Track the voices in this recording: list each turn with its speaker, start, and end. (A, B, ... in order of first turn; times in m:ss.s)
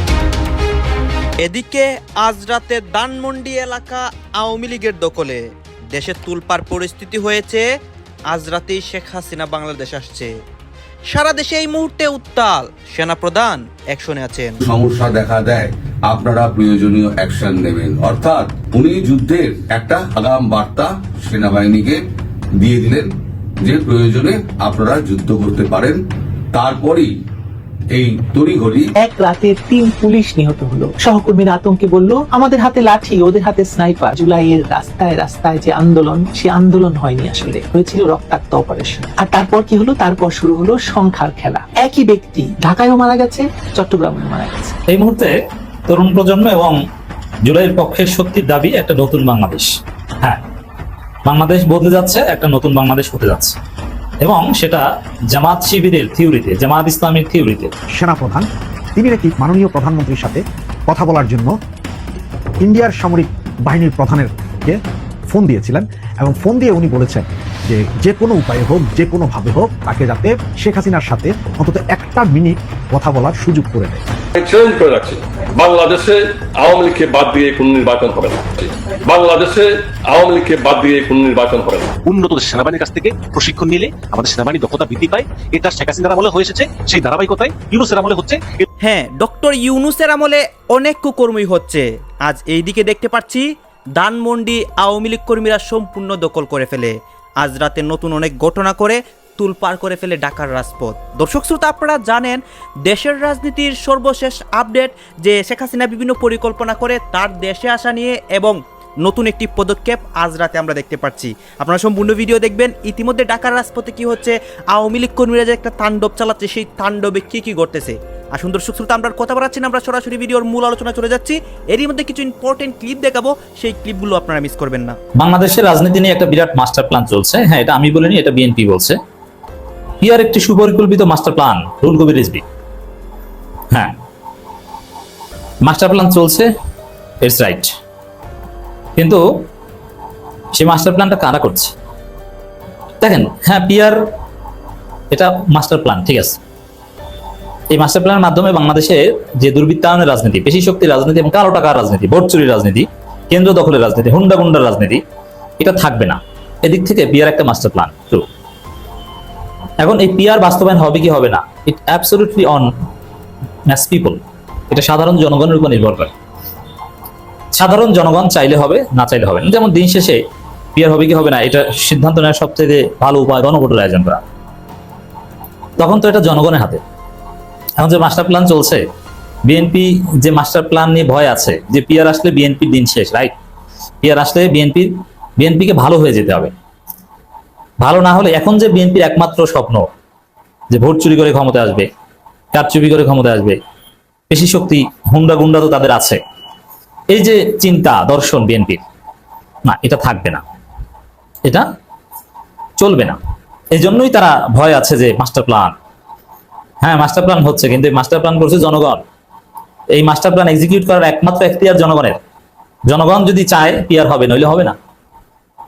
0:01.4-0:07.6 A
0:08.3-0:10.3 A
0:11.1-0:14.6 A
0:14.6-0:22.0 B
0:22.6-0:27.2 B
0:27.9-0:28.9 B
0:29.0-0:44.8 C
0:44.9-0:45.4 D
0:45.9-0:46.8 D
0:47.4-0:50.4 D
0:51.3-0:53.6 D
0:54.2-0:57.7 D
0:58.0-1:01.5 E
1:02.6-1:04.8 E
1:05.3-1:14.0 E
1:14.4-1:21.9 F
1:22.1-1:28.5 G
1:28.8-1:33.4 A
1:34.0-2:05.0 A
2:05.2-2:09.0 D
2:10.0-2:12.4 D
2:15.6-2:16.5 D
2:17.2-2:17.7 D
2:19.0-2:19.2 D
2:20.5-2:21.7 D
2:23.0-2:24.0 D
2:25.1-2:26.4 D
2:27.7-2:35.0 D
2:35.6-2:38.2 D
2:39.8-2:42.7 D
2:43.7-2:46.1 D
2:47.5-2:50.2 D
2:50.8-2:54.2 D
2:55.8-2:56.8 D
2:57.8-2:58.8 D
2:59.4-3:03.3 D
3:04.0-3:06.5 D
3:07.8-3:09.9 D
3:10.7-3:11.9 D
3:12.5-3:13.6 D
3:14.3-3:16.2 D
3:17.1-3:18.8 D
3:19.6-3:20.4 D
3:22.8-3:23.2 D
3:23.7-3:25.7 D
3:26.8-3:29.0 D
3:29.9-3:32.2 D
3:32.9-3:34.8 D